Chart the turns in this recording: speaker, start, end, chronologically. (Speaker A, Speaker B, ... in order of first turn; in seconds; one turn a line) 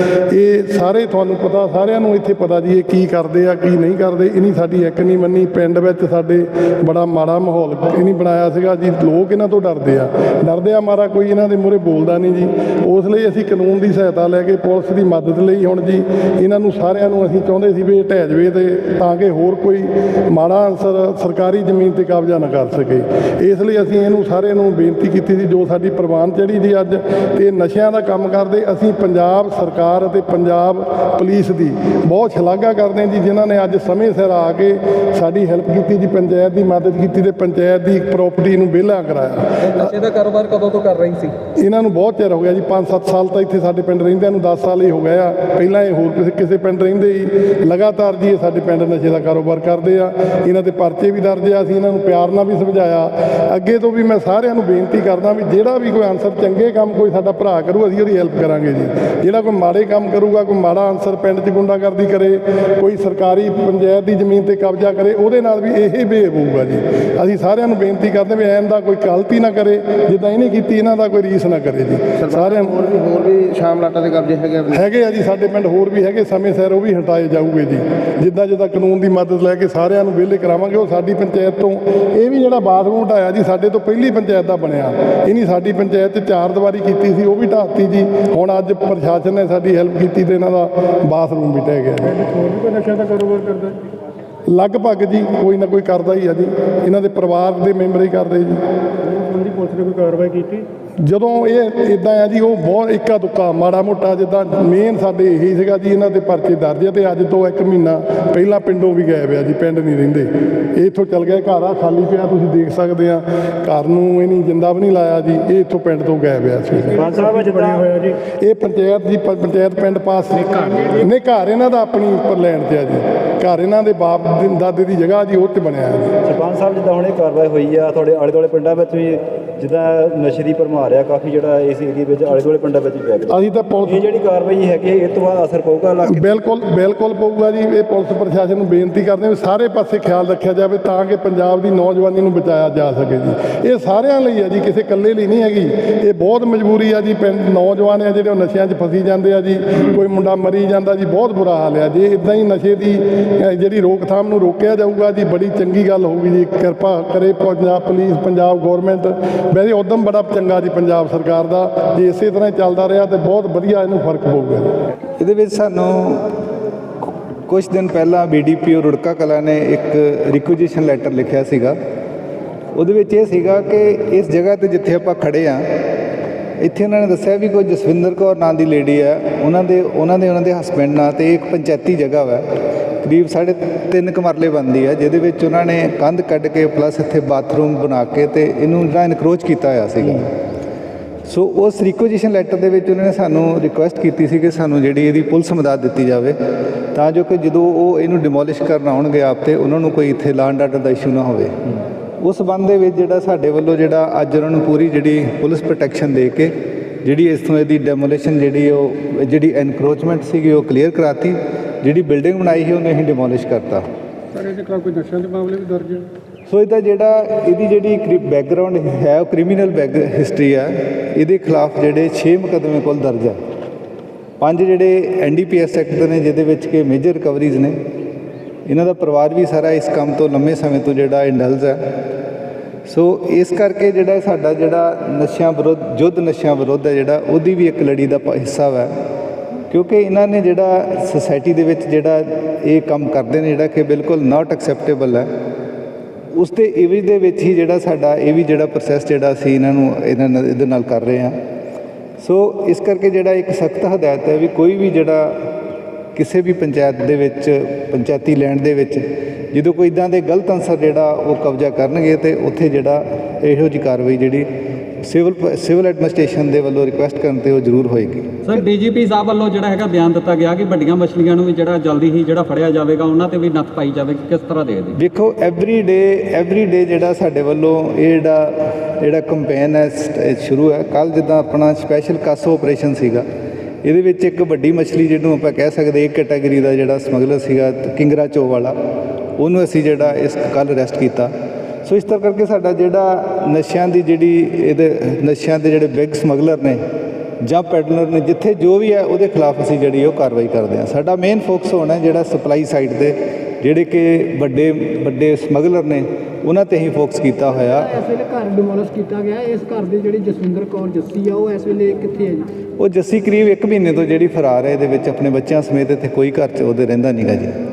Speaker A: 0.3-39.9
Speaker B: 39.6-41.3
Speaker A: 41.6-72.9
Speaker C: 72.2-74.8
Speaker A: 74.7-92.1
Speaker D: 92.0-93.8
Speaker A: 94.5-98.6
Speaker D: 99.0-100.7
Speaker A: 101.0-117.1
Speaker D: 116.9-117.8
Speaker E: 116.9-118.2
Speaker A: 118.3-126.1
Speaker E: 126.2-136.3
Speaker A: 133.3-134.0
Speaker A: 136.1-164.7
Speaker F: 165.2-166.3
Speaker F: 167.5-171.8
Speaker F: 172.7-175.7
Speaker F: 176.6-182.4
Speaker F: 183.0-190.3
Speaker F: 191.3-196.4
Speaker F: 196.9-213.9
Speaker D: 214.3-216.1
Speaker F: 216.5-223.4
Speaker F: 224.4-227.8
Speaker F: 228.7-231.8
Speaker F: 232.8-238.9
Speaker F: 239.7-245.3
Speaker F: 246.3-251.4
Speaker F: 252.2-255.5
Speaker F: 256.1-264.5
Speaker F: 265.0-268.6
Speaker B: 268.4-275.0
Speaker F: 274.9-283.2
Speaker F: 283.8-288.7
Speaker F: 289.4-291.3
Speaker F: 291.8-296.8
Speaker F: 297.4-307.9
Speaker G: 307.7-312.5
Speaker F: 312.8-317.6